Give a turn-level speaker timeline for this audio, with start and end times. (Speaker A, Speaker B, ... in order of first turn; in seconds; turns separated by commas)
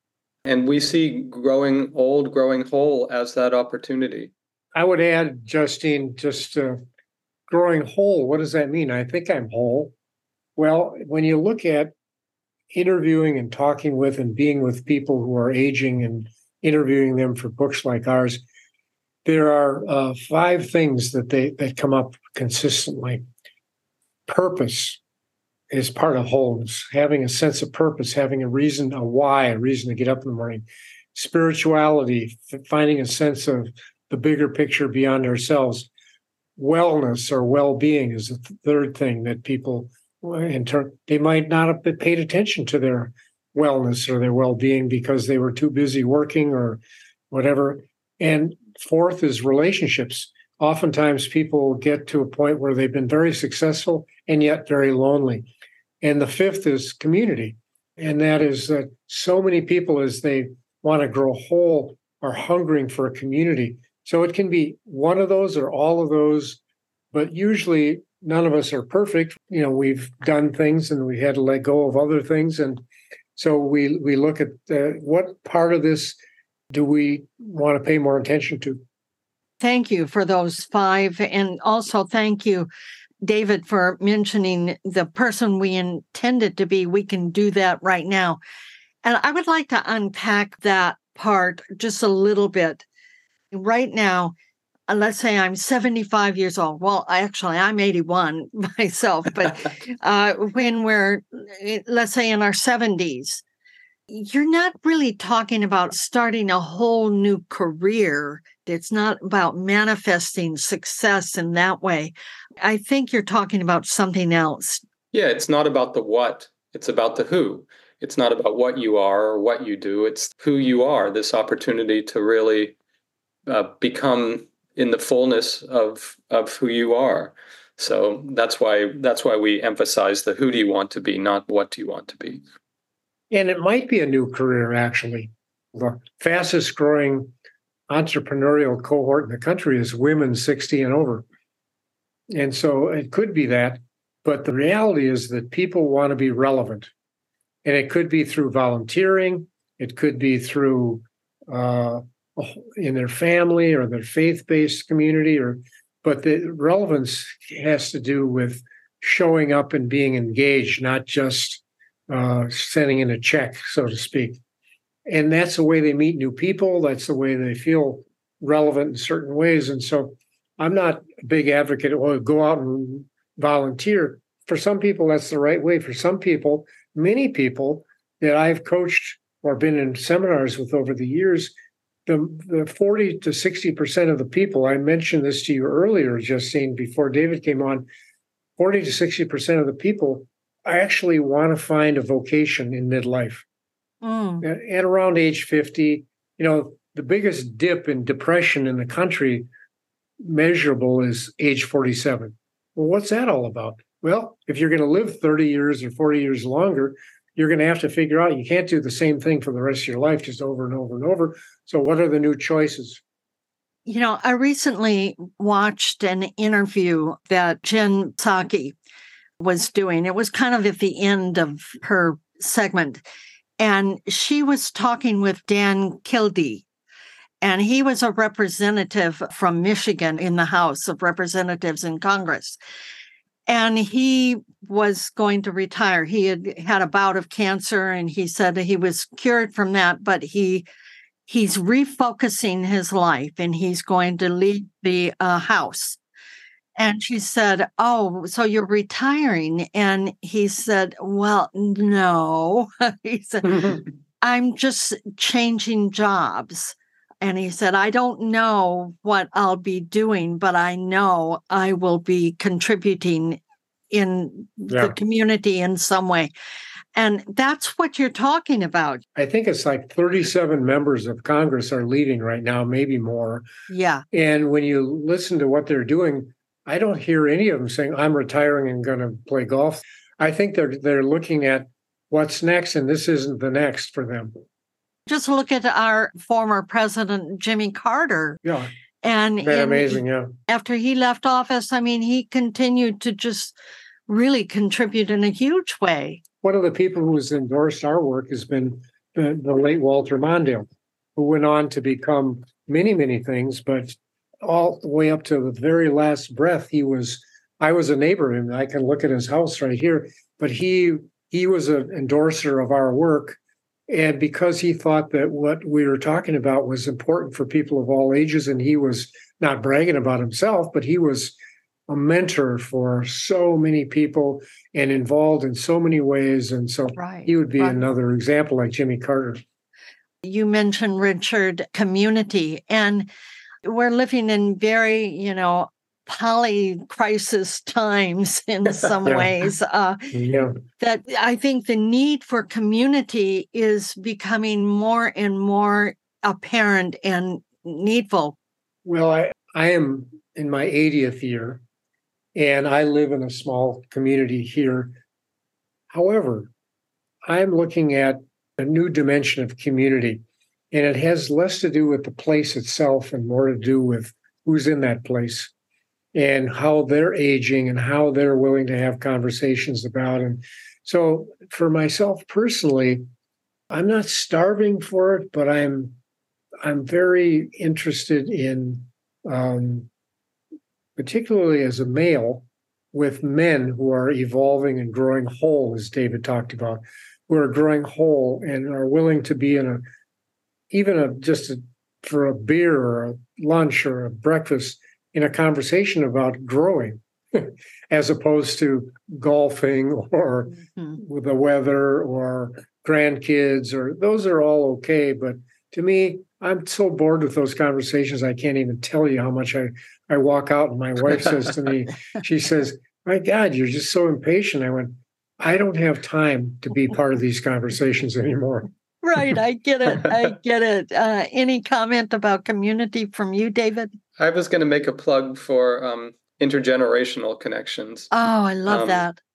Speaker A: 0.4-4.3, Speaker B: 4.7-6.8, Speaker B: 7.5-9.9, Speaker B: 10.6-11.9, Speaker B: 12.7-18.4, Speaker B: 19.2-23.2, Speaker B: 24.3-25.0, Speaker B: 25.7-35.9, Speaker B: 36.6-55.5, Speaker B: 56.0-66.6, Speaker B: 67.1-72.8, Speaker B: 73.3-76.2, Speaker B: 76.7-78.8, Speaker C: 79.6-82.7, Speaker C: 83.2-88.4, Speaker C: 89.0-92.8, Speaker C: 93.5-94.3, Speaker C: 94.9-103.4, Speaker C: 104.1-114.8, Speaker A: 115.1-122.8, Speaker A: 123.5-132.4, Speaker B: 133.3-137.3, Speaker B: 137.9-141.2, Speaker B: 142.3-146.9, Speaker B: 147.6-164.4, Speaker B: 165.1-181.5, Speaker B: 182.1-187.8, Speaker B: 188.6-193.4, Speaker C: 194.0-194.4, Speaker B: 194.4-199.5, Speaker B: 200.2-213.0, Speaker C: 213.8-218.8, Speaker C: 219.4-223.0, Speaker C: 223.6-226.7, Speaker C: 227.4-232.6, Speaker C: 233.5-240.7, Speaker C: 241.3-246.0, Speaker C: 246.8-266.3, Speaker B: 264.7-264.9, Speaker C: 266.9-269.0, Speaker B: 269.1-273.4, Speaker C: 273.7-274.0, Speaker B: 274.1-284.3, Speaker C: 285.1-288.4, Speaker B: 288.4-288.7, Speaker C: 289.0-293.6, Speaker B: 289.4-290.4, Speaker C: 294.1-296.2, Speaker B: 296.4-321.3, Speaker B: 321.9-329.4, Speaker C: 326.9-327.8, Speaker C: 330.2-333.1, Speaker C: 333.6-340.1, Speaker B: 339.1-339.3, Speaker B: 340.1-340.5, Speaker C: 340.8-348.4, Speaker B: 348.8-351.6, Speaker B: 352.3-354.9, Speaker B: 355.9-356.5, Speaker B: 357.2-365.5, Speaker B: 366.1-373.0, Speaker B: 373.7-376.0, Speaker B: 376.6-379.9, Speaker B: 381.0-389.8, Speaker B: 390.7-418.7, Speaker C: 400.7-401.0, Speaker C: 419.0-423.9, Speaker A: 424.2-428.1, Speaker C: 428.1-429.2, Speaker A: 428.6-429.1